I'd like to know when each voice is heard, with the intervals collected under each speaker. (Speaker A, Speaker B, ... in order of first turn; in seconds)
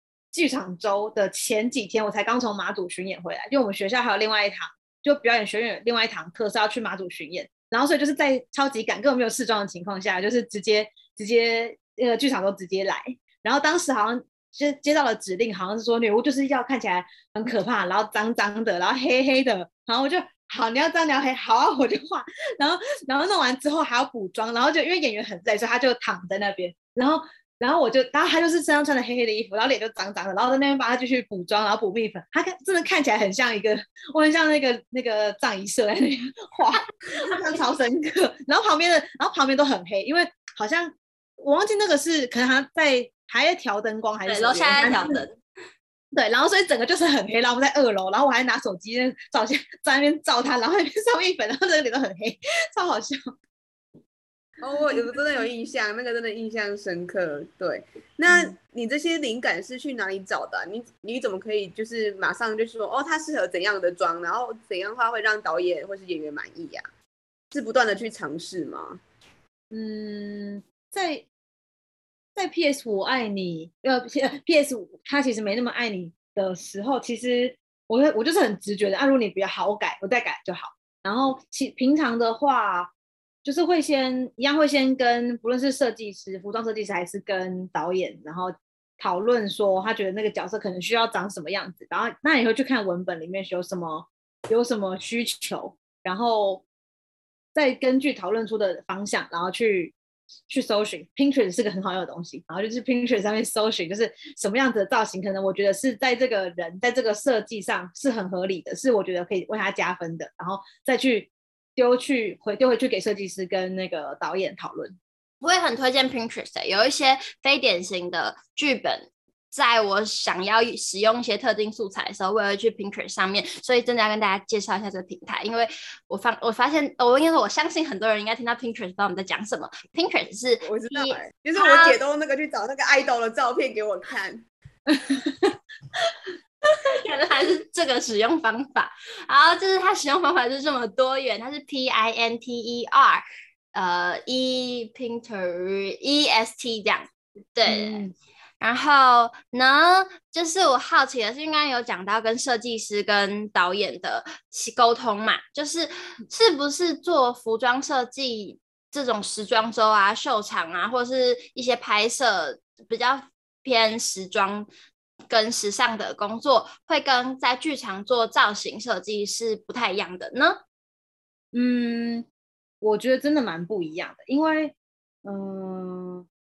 Speaker A: 0.3-45.1, 46.1-53.3, 58.3-58.5, 69.7-71.2, 72.3-82.9, 83.4-96.6, 97.5-100.0, 100.5-114.9, 135.1-135.5, 147.7-148.1, 171.5-172.2, 172.8-176.3
Speaker B: 44.2-45.4, 115.4-132.0, 136.8-143.2, 143.7-148.0, 148.6-164.7, 165.3-170.6
Speaker C: 54.6-66.9, 67.5-69.0, 130.6-134.4